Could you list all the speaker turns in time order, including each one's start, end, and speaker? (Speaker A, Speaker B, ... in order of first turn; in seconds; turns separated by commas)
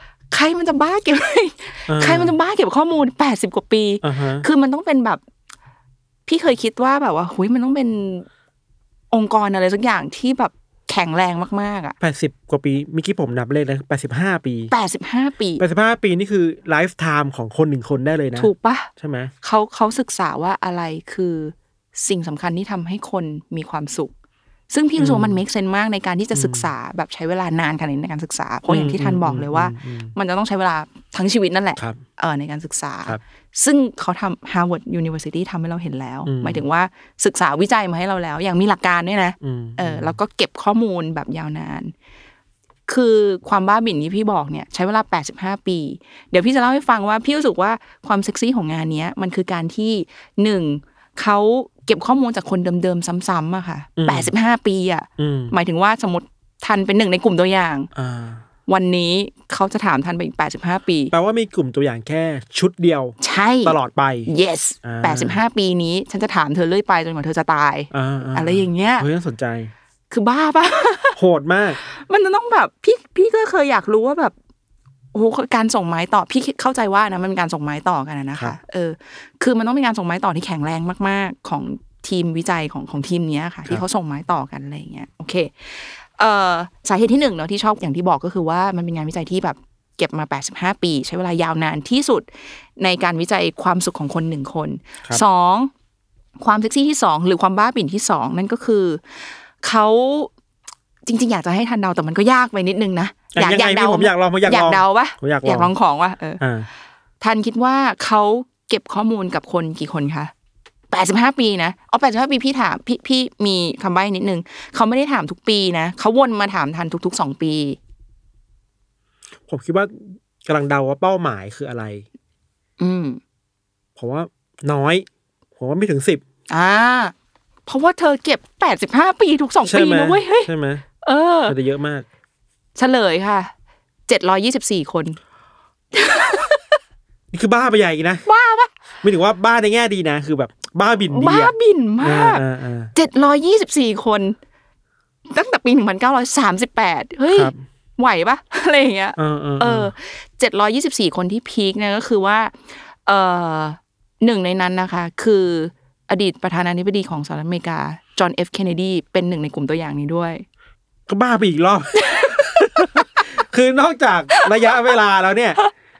Speaker A: 0.3-5.2, Speaker B: 1.9-2.4, Speaker B: 4.0-4.5, Speaker A: 6.2-8.3, Speaker A: 9.1-11.9, Speaker B: 12.0-14.7, Speaker A: 14.7-15.6, Speaker B: 15.6-19.3, Speaker A: 18.3-18.9, Speaker A: 19.4-24.1, Speaker A: 24.7-41.9, Speaker B: 25.0-25.4, Speaker B: 26.3-26.7, Speaker B: 28.6-30.1, Speaker B: 36.2-36.6, Speaker B: 39.4-40.2, Speaker A: 42.9-57.9, Speaker B: 54.0-54.3, Speaker B: 55.2-55.5, Speaker B: 57.9-58.4, Speaker A: 58.7-61.1, Speaker B: 61.1-64.3, Speaker A: 63.2-69.1, Speaker B: 64.8-65.4, Speaker B: 67.9-69.7, Speaker A: 70.1-71.2, Speaker B: 71.1-71.8, Speaker A: 71.8-74.3, Speaker A: 75.1-95.7, Speaker A: 96.4-100.3, Speaker A: 101.0-106.4, Speaker B: 103.3-105.7, Speaker B: 106.4-106.7, Speaker A: 107.2-110.3, Speaker A: 110.9-117.8, Speaker B: 119.5-122.0, Speaker A: 122.8-123.2, Speaker B: 124.0-126.2, Speaker A: 126.5-127.1, Speaker A: 127.7-131.6, Speaker B: 129.6-130.8, Speaker B: 131.4-132.0, Speaker A: 132.7-133.5, Speaker A: 134.1-135.2, Speaker A: 135.9-136.8, Speaker B: 137.3-138.2, Speaker A: 138.2-138.7, Speaker B: 139.0-142.9, Speaker A: 141.1-144.4, Speaker A: 145.3-160.4, Speaker B: 147.3-147.6, Speaker B: 149.2-149.9, Speaker B: 161.1-165.6, Speaker A: 161.9-163.3, Speaker A: 164.3-164.9